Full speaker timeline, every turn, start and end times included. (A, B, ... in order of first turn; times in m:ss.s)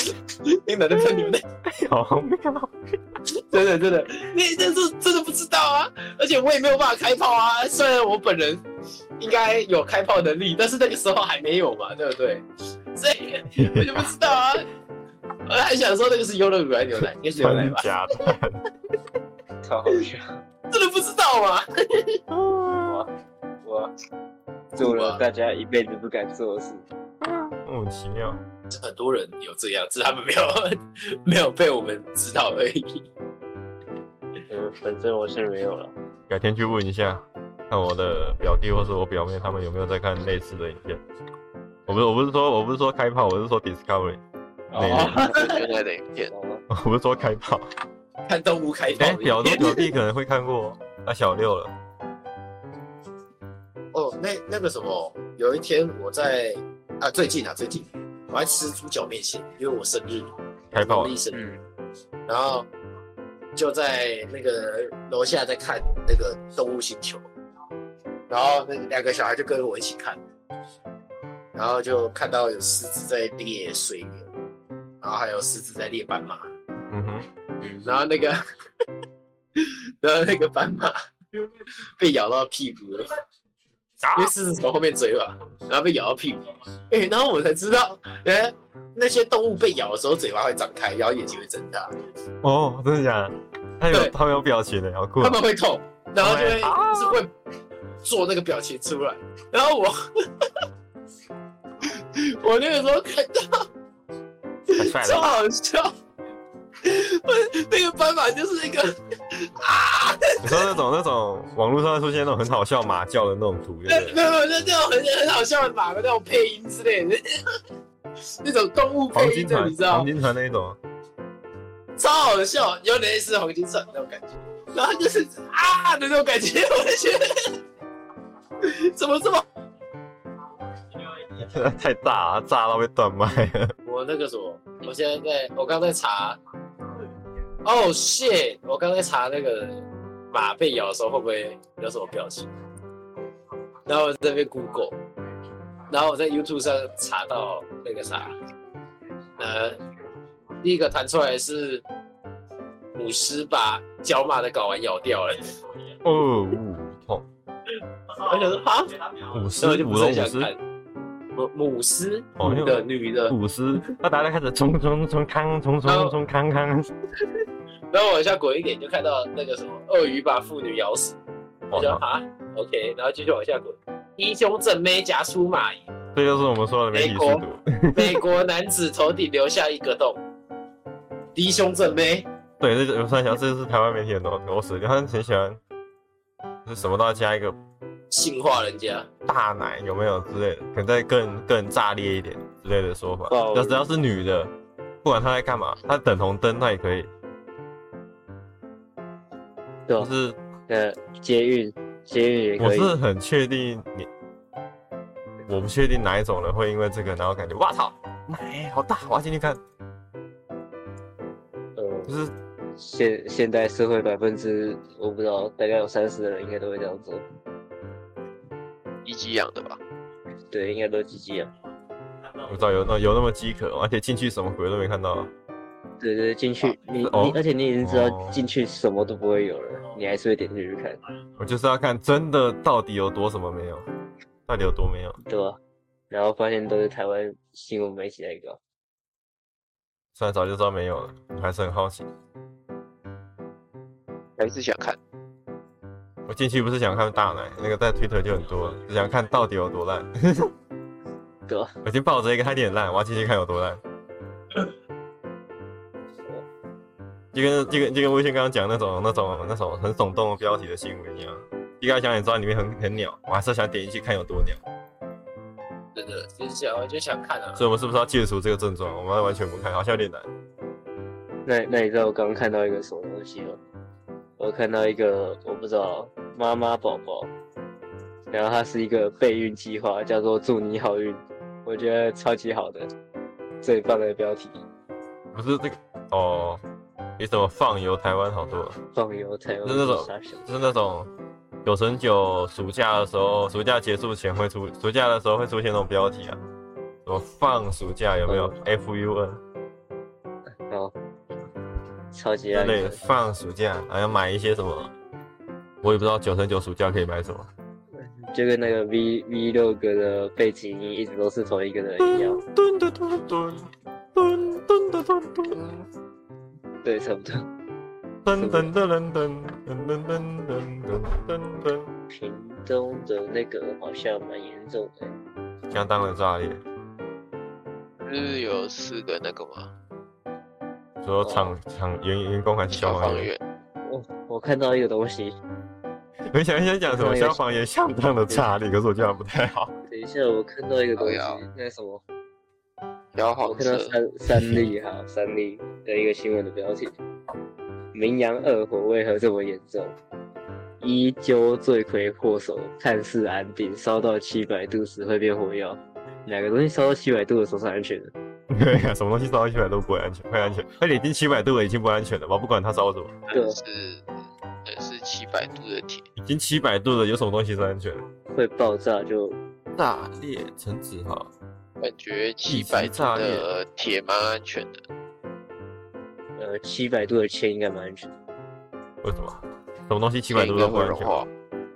0:00.1-0:01.4 A
0:01.7-0:02.7 B
0:03.5-0:08.6 A
0:09.2-0:14.7 A
0:13.5-0:14.0 B
0:15.5-0:17.9 A
0:17.4-0:18.6 B
0:19.6-0:20.4 C
0:20.7-0:22.2 A
0:22.3-0:23.0 B
0:23.6-0:23.9 C
0:24.7-0:25.2 A
0:24.8-0:26.8 C
0:27.2-0:28.4 B
0:28.7-0:33.0 A
0:34.5-0:35.9 C
0:36.3-0:41.0 B
0:41.9-0:44.2 B
0:44.7-0:45.6 A
0:44.7-0:45.2 B
0:45.2-0:46.3 D
0:46.3-0:46.6 C
0:46.7-0:47.6 B
0:48.3-0:49.9 A
0:49.0-0:51.7 B
0:53.9-1:01.4 A
1:00.7-1:01.1 B
1:01.3-1:01.6 C
1:02.3-1:02.7 A
1:03.5-1:07.2 A
1:08.3-1:10.2 A
1:11.5-1:14.3 A
1:15.0-1:16.5 A
1:16.9-1:17.3 B
1:17.8-1:18.4 A
1:19.6-1:21.0 A
1:22.0-1:23.1 A
1:24.0-1:24.3 B
1:24.1-1:31.9 A
1:32.4-1:35.4 B
1:35.2-1:37.3 A
1:36.2-1:37.2 B
1:38.0-1:40.5 A
1:41.8-1:43.6 A
1:44.7-1:45.9 A
1:44.7-1:45.4 B
1:46.8-1:50.7 A
1:50.4-1:54.2 B
1:53.9-1:57.2 A
1:58.4-2:00.1 A
1:59.1-2:00.8 B
2:02.0-2:07.3 A
2:08.6-2:09.4 A
2:11.3-2:13.7 B
2:13.8-2:16.4 A
2:17.6-2:22.5 A
2:23.8-2:25.0 A
2:25.9-2:28.3 A
2:29.4-2:29.8 A
2:30.6-2:31.8 A
2:32.9-2:35.6 A
2:36.0-2:37.2 B
2:38.2-2:39.0 A
2:39.3-2:40.5 B
2:39.6-2:40.6 A
2:41.3-2:43.3 A
2:42.4-2:46.9 B
2:45.8-2:46.1 A
2:47.9-2:51.2 A
2:51.7-2:52.0 B
2:51.7-2:55.9 A
2:56.1-2:58.2 B
2:56.9-2:57.4 A
2:57.9-3:00.2 A
3:01.3-3:02.3 A
3:02.6-3:05.6 B
3:06.6-3:07.6 B
3:08.1-3:09.1 A
3:09.2-3:14.5 B
3:13.3-3:13.9 C
3:15.0-3:17.1 B
3:20.0-3:20.4 B
3:20.7-3:23.0 C
3:22.6-3:24.1 B
3:25.5-3:29.6 B
3:31.8-3:32.2 C
3:32.0-3:32.3 B
3:32.8-3:37.2 C
3:39.0-3:39.8 D
3:40.5-3:41.5 C
3:42.4-3:45.3 B
3:46.0-3:51.0 C
3:46.6-3:48.4 B
3:51.4-3:53.9 B
3:54.5-3:55.2 B
3:55.2-3:55.6 C
3:56.1-3:58.6 C
4:00.2-4:02.1 B
4:04.4-4:05.0 D
4:06.3-4:10.5 B
4:11.5-4:11.7 C
4:11.8-4:13.8 B
4:17.3-4:24.6 B
4:25.9-4:27.6 A
4:27.6-4:30.3 B
4:31.4-4:33.6 C
4:34.4-4:37.3 C
4:38.3-4:42.9 C
4:43.6-4:44.6 C
4:45.3-4:46.6 B
4:47.2-4:48.8 B
4:48.9-4:50.4 C
4:49.6-4:51.1 B
4:51.6-4:56.4 B
4:57.0-4:59.4 B
4:58.2-4:58.6 C
5:00.7-5:00.9 C
5:02.1-5:03.0 C
5:02.5-5:04.9 B
5:05.8-5:07.5 B
5:08.2-5:12.4 C
5:12.0-5:15.8 B
5:16.8-5:17.5 C
5:18.2-5:21.9 B
5:18.3-5:18.7 C
5:22.1-5:25.1 C
5:25.7-5:26.6 B
5:28.0-5:29.7 D
5:31.0-5:33.3 B
5:31.2-5:31.5 C
5:32.7-5:33.4 D
5:33.8-5:35.4 C
5:36.3-5:39.7 B
5:36.9-5:37.4 C
5:39.9-5:42.0 C
5:40.9-5:41.4 D
5:43.1-5:44.0 D
5:43.4-5:46.9 C
5:44.3-5:44.6 B
5:47.9-5:49.9 C
5:50.8-5:58.1 C
5:58.5-6:03.1 B
6:03.3-6:04.1 D
6:03.3-6:03.6 C
6:04.6-6:06.1 D
6:06.2-6:08.0 B
6:08.3-6:09.4 C
6:09.8-6:11.3 B
6:11.8-6:14.8 D
6:12.5-6:13.5 B
6:16.4-6:18.1 C
6:19.0-6:21.2 B
6:20.3-6:21.3 D